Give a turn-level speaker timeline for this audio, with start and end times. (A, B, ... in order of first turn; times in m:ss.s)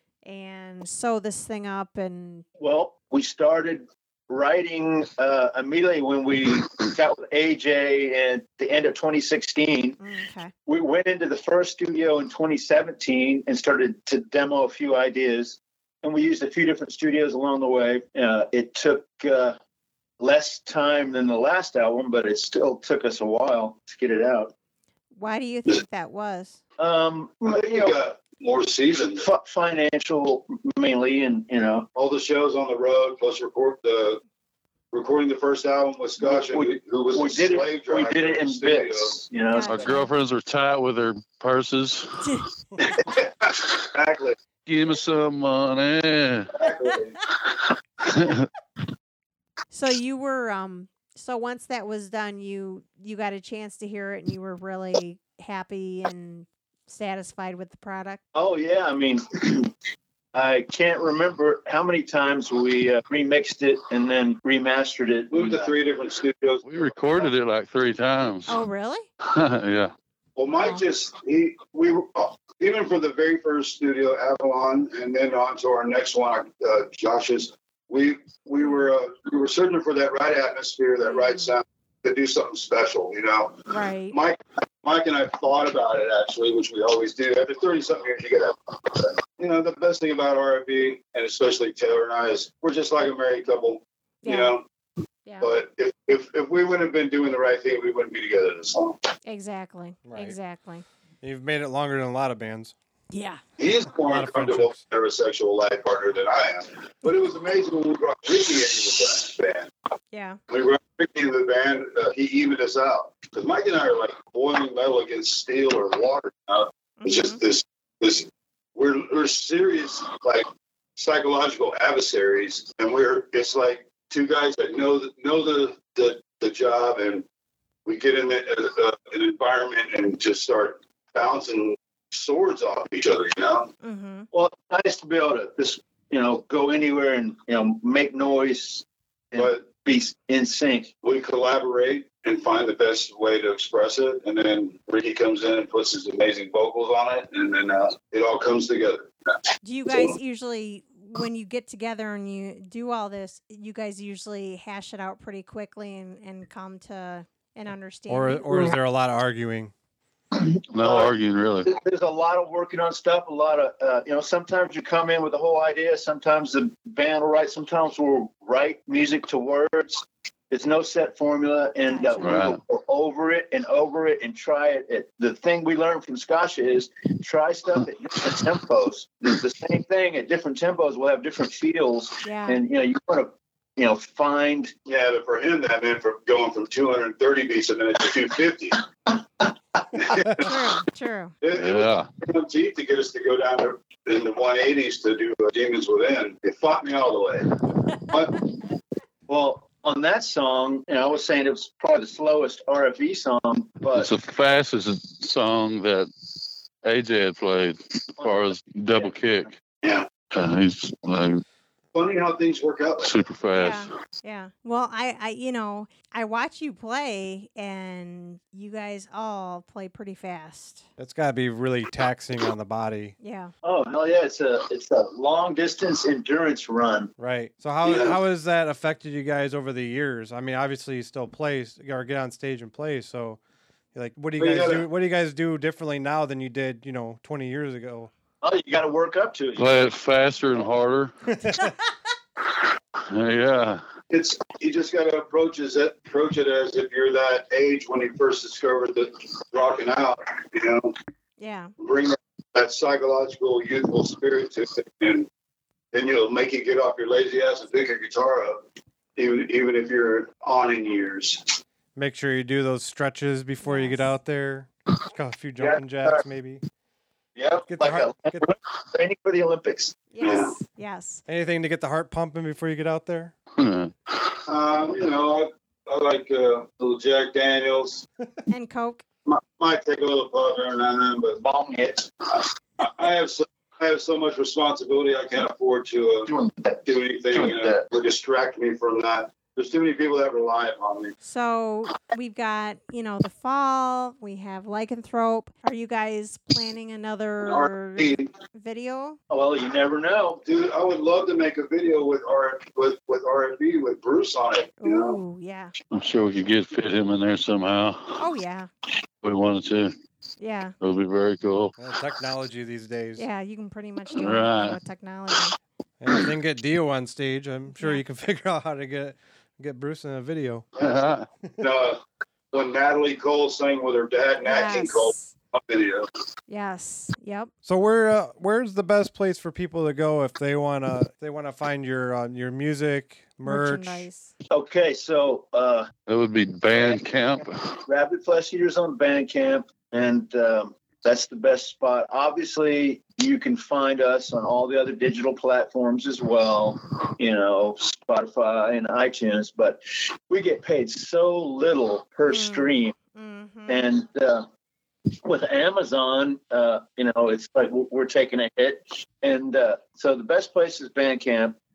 0:00.2-0:02.4 A
0:02.6-0:10.0 B
0:10.0-0:10.5 A
0:10.6-0:19.6 B
0:20.2-0:24.5 B
0:25.1-0:26.6 A
0:26.8-0:28.0 B
0:27.4-0:29.2 C
0:29.1-0:31.9 B
0:31.9-0:34.2 C
0:34.9-0:39.2 C
0:36.2-0:39.9 B
0:39.5-0:40.1 A
0:39.6-0:42.4 D
0:42.8-0:44.4 C
0:44.6-0:46.5 D
0:46.5-0:47.2 C
0:48.0-0:48.5 D
0:49.7-0:58.2 A
0:58.3-0:59.7 B
1:00.3-1:05.7 B
1:05.3-1:07.3 C
1:06.6-1:08.6 D
1:08.5-1:09.1 A
1:09.2-1:09.9 D
1:10.4-1:34.6 C
1:10.6-1:10.8 A
1:21.0-1:21.5 A
1:23.7-1:24.2 A
1:34.2-1:34.5 A
1:35.2-1:35.5 A
1:35.4-1:39.0 C
1:39.2-1:40.8 A
1:40.0-1:40.4 E
1:41.2-1:42.7 E
1:43.1-1:43.4 A
1:43.6-1:49.7 C
1:44.0-1:44.8 E
1:50.1-1:50.4 A
1:50.5-2:07.2 C
1:57.0-1:57.4 A
2:07.8-2:13.7 C
2:13.8-2:14.3 A
2:14.3-2:20.9 B
2:19.3-2:19.7 C
2:21.0-2:30.2 C
2:29.6-2:38.5 A
2:38.1-2:39.7 E
2:40.4-2:41.7 D
2:40.8-2:41.1 B
2:41.6-3:04.7 B
2:51.8-2:52.3 A
2:52.2-2:52.6 D
3:02.2-3:02.6 A
3:04.8-3:08.9 C
3:09.9-3:10.6 C
3:10.4-3:11.3 A
3:11.4-3:18.5 C
3:11.5-3:12.1 D
3:19.3-3:24.1 B
3:23.9-3:29.5 D
3:28.2-3:29.2 B
3:29.8-3:30.1 C
3:30.3-3:31.4 D
3:31.9-3:33.1 C
3:33.0-3:33.9 D
3:33.5-3:40.9 A
3:41.0-3:43.1 E
3:43.2-3:43.5 A
3:43.6-3:47.1 B
3:47.2-3:53.4 E
3:47.8-3:48.2 C
3:53.9-3:58.1 E
3:54.4-3:54.8 C
3:58.4-3:59.6 B
3:59.6-4:01.1 D
4:01.3-4:01.7 E
4:02.4-4:03.8 D
4:04.1-4:10.9 C
4:11.4-4:11.7 A
4:11.8-4:15.3 C
4:15.9-4:18.6 C
4:19.2-4:21.6 C
4:21.9-4:26.6 E
4:23.6-4:24.1 A
4:27.4-4:30.0 B
4:27.7-4:28.5 E
4:30.1-4:31.2 A
4:30.2-4:30.6 C
4:31.3-4:33.3 E
4:33.6-4:34.4 D
4:34.5-4:38.0 C
4:38.5-4:39.0 A
4:39.2-4:41.4 C
4:41.4-4:42.1 B
4:42.4-4:46.3 C
4:46.3-4:47.8 B
4:46.8-4:51.1 C
4:51.2-4:59.2 A
4:57.4-4:58.3 C
4:59.3-5:00.4 B
5:00.4-5:05.2 C
5:04.8-5:05.7 A
5:05.9-5:08.2 D
5:08.2-5:08.7 A
5:09.2-5:09.9 D
5:10.4-5:10.7 A
5:10.8-5:11.7 D
5:11.8-5:13.2 E
5:13.2-5:15.6 A
5:14.2-5:14.8 D
5:16.0-5:20.7 E
5:20.8-5:26.0 C
5:20.8-5:21.2 D
5:24.4-5:25.3 A
5:26.5-5:27.5 A
5:27.6-5:34.1 E
5:33.4-5:34.3 A
5:34.5-5:35.9 B
5:36.1-5:37.8 D
5:36.7-5:52.9 B
5:52.3-5:53.9 A
5:53.7-5:54.4 B
5:55.2-6:01.6 B